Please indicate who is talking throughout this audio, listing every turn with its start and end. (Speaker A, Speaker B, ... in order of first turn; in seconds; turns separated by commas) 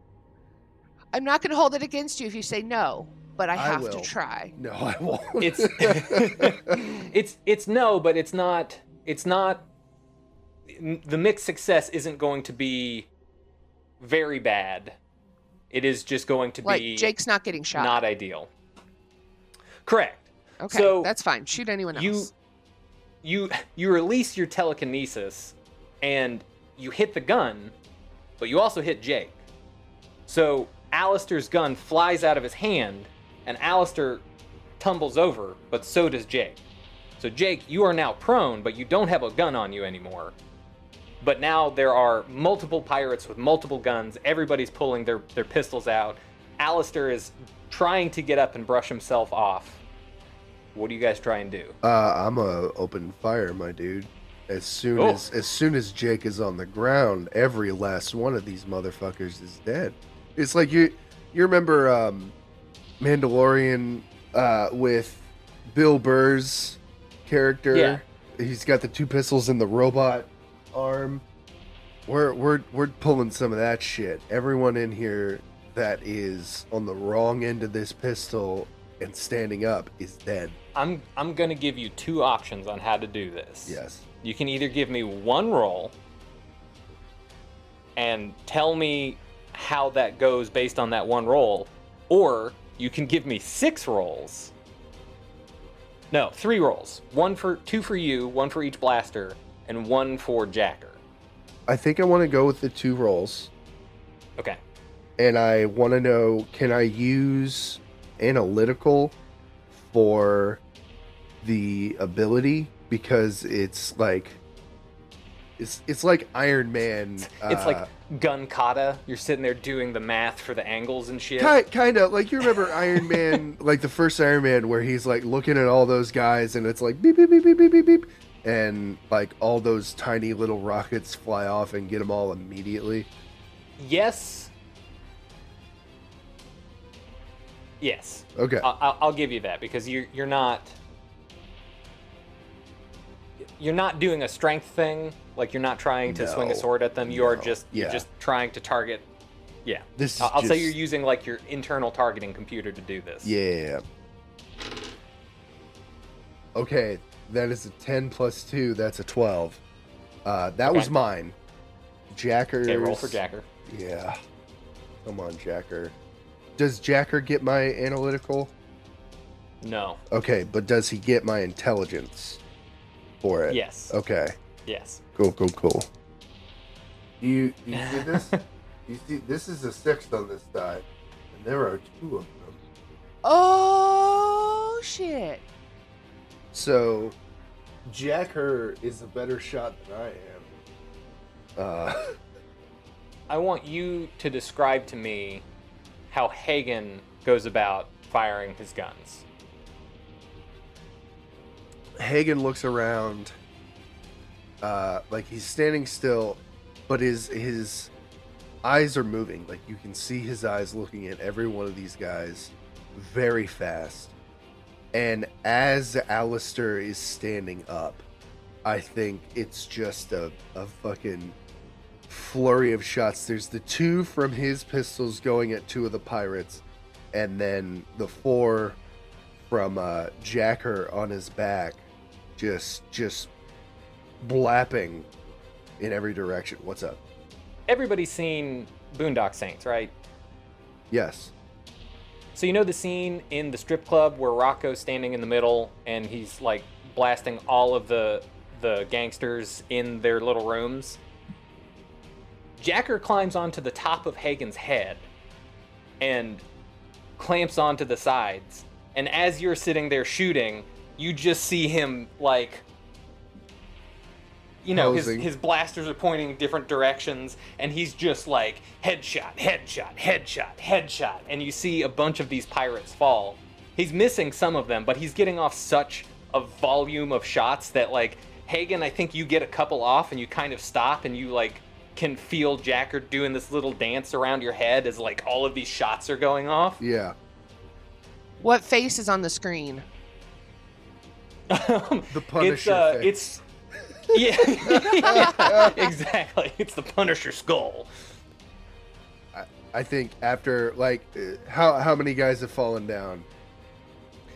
Speaker A: 1.1-4.5, Speaker B: 3.5-6.8, Speaker C: 5.4-9.7, Speaker C: 10.7-13.1, Speaker C: 14.0-15.0, Speaker C: 15.7-17.1, Speaker A: 16.6-18.0, Speaker C: 17.7-18.5, Speaker C: 19.8-21.1, Speaker A: 20.6-22.3, Speaker C: 21.9-22.3, Speaker C: 23.2-27.7, Speaker C: 28.4-29.4, Speaker C: 30.3-34.2, Speaker C: 34.8-36.6, Speaker C: 37.2-40.4, Speaker C: 41.2-49.8, Speaker C: 50.7-51.8, Speaker B: 51.8-62.3, Speaker C: 55.0-55.2, Speaker B: 63.0-71.2, Speaker C: 67.7-68.0, Speaker B: 72.1-80.5, Speaker C: 80.7-85.9, Speaker B: 83.7-84.0, Speaker C: 88.0-94.5, Speaker C: 96.1-101.0, Speaker B: 101.7-103.5, Speaker B: 105.2-109.2, Speaker B: 109.7-110.6, Speaker B: 111.4-114.4, Speaker B: 115.6-117.9, Speaker C: 117.2-121.6, Speaker B: 121.4-133.1, Speaker C: 122.4-123.4, Speaker C: 133.8-134.5, Speaker C: 137.8-140.8, Speaker B: 138.3-138.7, Speaker C: 143.4-149.1, Speaker B: 146.1-148.0, Speaker C: 149.6-153.3, Speaker B: 150.0-150.7, Speaker B: 153.2-153.8, Speaker B: 156.5-159.6, Speaker B: 160.2-161.3, Speaker B: 162.1-164.2, Speaker C: 162.6-163.4, Speaker B: 165.0-165.9, Speaker B: 166.6-168.5, Speaker C: 169.6-170.0, Speaker B: 170.1-172.4, Speaker B: 173.2-174.3, Speaker C: 173.5-173.9, Speaker C: 174.7-175.0, Speaker B: 175.1-175.9, Speaker B: 177.2-182.6, Speaker C: 177.7-178.4, Speaker A: 183.2-185.4, Speaker B: 186.5-187.2, Speaker B: 187.8-190.5, Speaker B: 191.6-192.2, Speaker C: 193.3-195.4, Speaker C: 196.1-199.2, Speaker B: 202.0-203.3, Speaker B: 204.6-207.9, Speaker B: 208.6-214.1, Speaker B: 214.9-218.0, Speaker B: 218.6-221.3, Speaker B: 222.1-228.8, Speaker B: 229.5-231.8, Speaker B: 232.4-233.3, Speaker B: 234.2-235.1, Speaker B: 235.8-237.0, Speaker C: 237.7-239.9, Speaker B: 240.9-241.3, Speaker C: 242.3-251.0, Speaker C: 252.6-255.1, Speaker C: 256.0-256.4, Speaker C: 257.2-262.6, Speaker C: 264.6-286.8, Speaker B: 264.7-265.3, Speaker B: 286.8-287.1, Speaker A: 288.4-289.8, Speaker C: 291.5-293.4, Speaker B: 292.1-293.2, Speaker B: 294.1-295.7, Speaker C: 294.1-297.9, Speaker A: 295.0-295.7, Speaker B: 299.3-303.3